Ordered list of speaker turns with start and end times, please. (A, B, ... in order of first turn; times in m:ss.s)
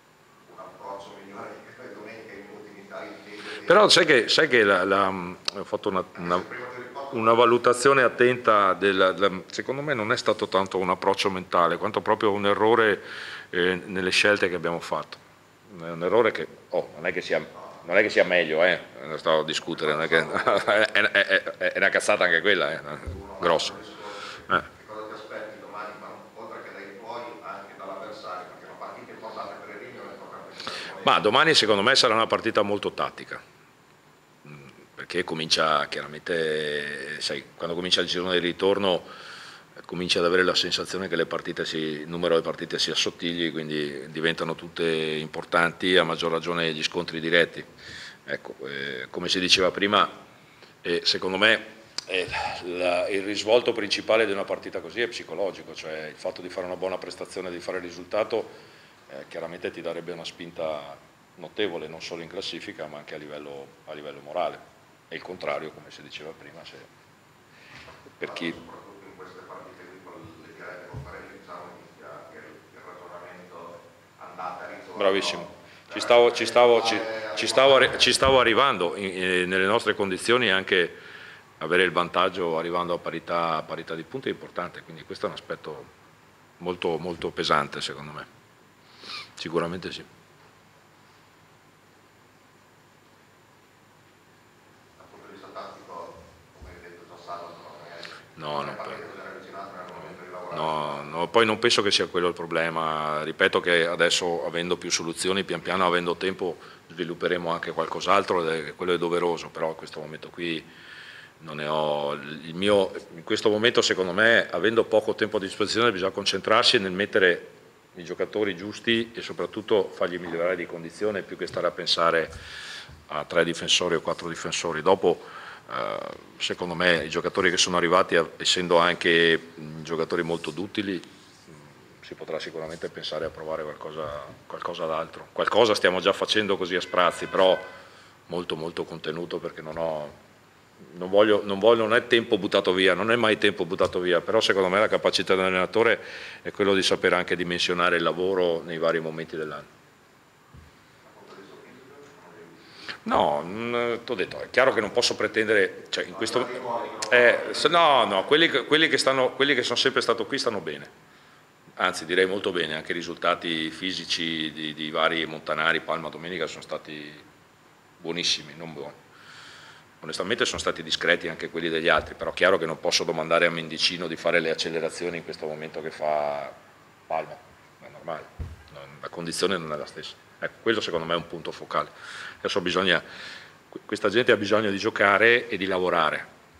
0:00.4-0:04.0 A
0:03.6-0:06.4 B
0:06.2-0:07.4 A
0:07.1-0:23.8 B
0:19.7-0:20.8 A
0:23.0-0:31.2 A
0:31.0-0:33.4 B
0:34.4-0:39.1 B
0:39.8-0:47.7 B
0:48.2-0:50.2 B
0:50.8-0:58.5 B
0:59.1-1:06.9 B
1:08.2-1:08.6 B
1:08.2-1:18.1 A
1:15.0-1:21.0 B
1:21.6-1:25.9 B
1:26.6-1:28.3 B
1:29.4-1:30.1 B
1:35.0-1:41.1 A
1:38.4-1:39.0 B
1:40.5-1:50.7 B
1:51.4-2:02.3 B
2:03.1-2:11.1 B
2:12.0-2:17.7 B
2:18.3-2:20.2 B
2:20.9-2:29.7 B
2:31.0-2:32.6 A
2:33.0-2:40.9 B
2:36.1-2:38.3 A
2:41.8-2:47.2 B
2:48.0-2:49.0 B
2:50.0-2:56.6 B
2:57.1-3:01.9 B
3:02.4-3:03.0 B
3:03.7-3:06.3 B